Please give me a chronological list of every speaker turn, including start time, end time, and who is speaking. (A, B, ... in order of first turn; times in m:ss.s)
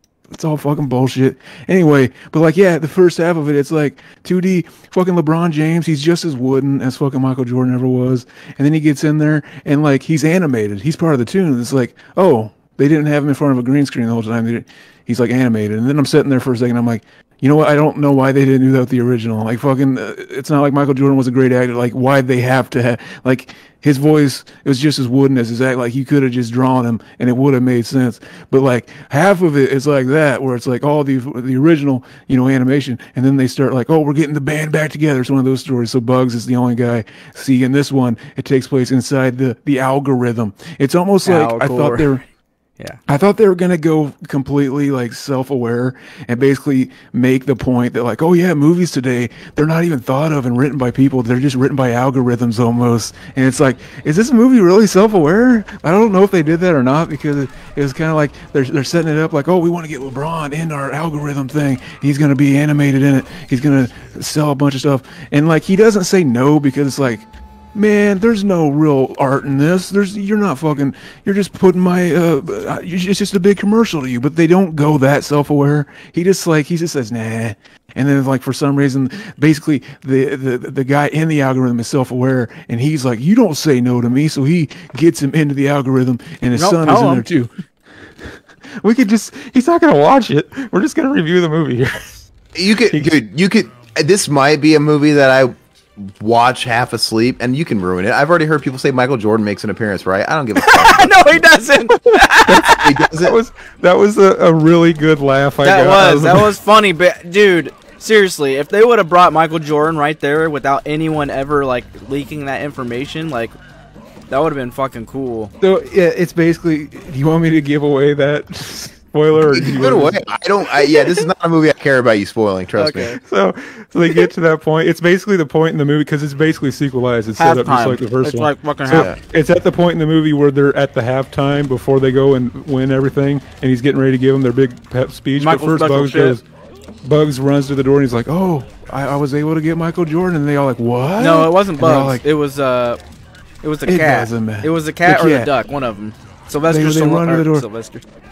0:00.3-0:42.2 A
0:41.2-0:42.1 B
0:43.1-1:27.5 A
1:26.5-1:27.2 B
1:28.2-1:32.1 A
1:32.5-1:41.3 C
1:32.9-1:33.2 A
1:40.6-1:42.9 B
1:41.9-1:46.6 A
1:42.7-1:43.4 C
1:45.6-1:53.6 B
1:54.3-1:55.5 B
1:55.6-2:01.2 A
1:59.4-2:03.2 C
2:02.8-2:03.2 B
2:03.2-2:16.4 A
2:07.4-2:09.1 B
2:08.9-2:09.2 C
2:15.4-2:16.4 B
2:17.0-2:22.2 A
2:21.2-2:23.0 B
2:23.6-2:28.0 B
2:23.9-2:25.5 A
2:26.7-2:27.6 A